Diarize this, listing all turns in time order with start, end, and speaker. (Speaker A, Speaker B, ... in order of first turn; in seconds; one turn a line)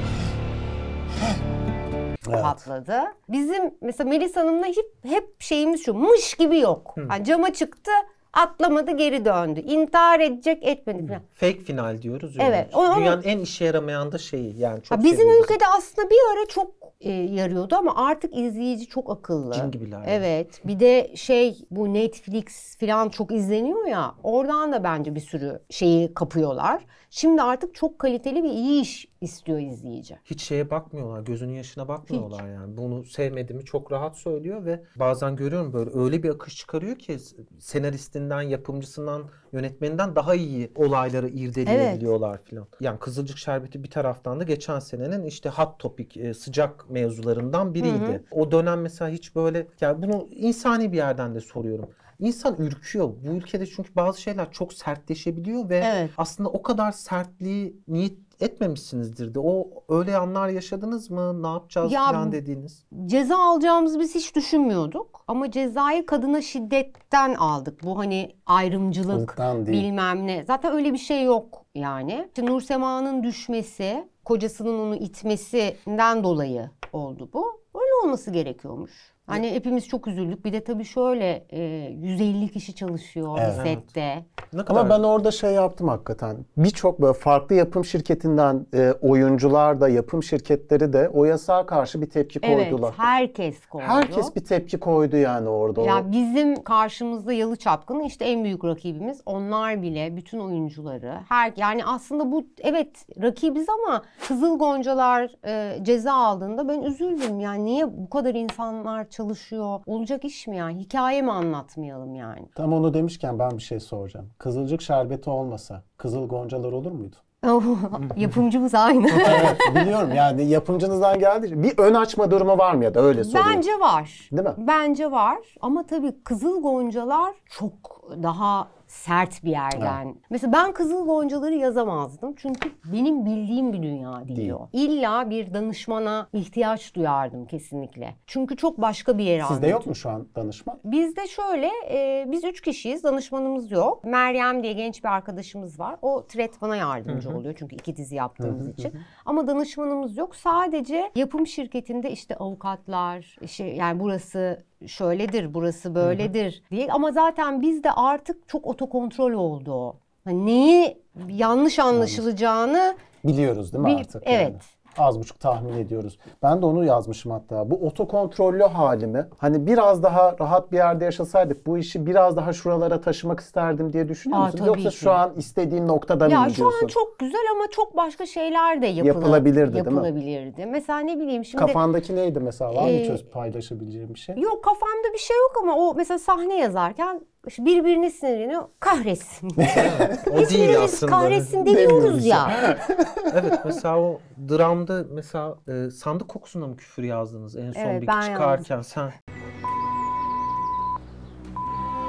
Speaker A: 2.2-2.6
Speaker B: 2.3-11.2
Speaker C: 11.2-15.5
Speaker B: 12.4-13.2
Speaker B: 14.9-30.2
Speaker C: 19.5-20.2
Speaker C: 30.3-62.8
Speaker B: 41.6-42.1
Speaker B: 47.8-48.2
Speaker B: 55.8-56.1
Speaker B: 61.8-62.4
Speaker B: 62.9-84.3
Speaker A: 69.1-69.9
Speaker A: 83.3-83.6
Speaker C: 83.5-83.9
Speaker C: 84.5-85.0
Speaker A: 84.7-93.1
Speaker B: 92.4-94.3
Speaker A: 93.8-96.1
Speaker B: 95.8-112.5
Speaker A: 112.6-117.2
Speaker B: 117.4-119.9
Speaker A: 119.2-123.6
Speaker B: 123.2-139.9
Speaker A: 124.3-124.6
Speaker A: 129.8-130.0
Speaker A: 134.3-134.6
Speaker A: 139.4-140.8
Speaker B: 140.8-163.0
Speaker C: 147.1-147.4
Speaker A: 148.4-149.0
Speaker C: 156.0-156.3
Speaker A: 161.9-162.2
Speaker A: 163.2-176.9
Speaker B: 163.8-164.6
Speaker B: 174.3-175.2
Speaker B: 176.2-181.8
Speaker A: 179.0-180.1
Speaker A: 181.6-184.4
Speaker B: 182.7-183.2
Speaker B: 184.4-192.6
Speaker A: 189.6-190.2
Speaker C: 189.7-191.6
Speaker A: 191.6-193.8
Speaker C: 193.3-199.1
Speaker B: 197.8-198.6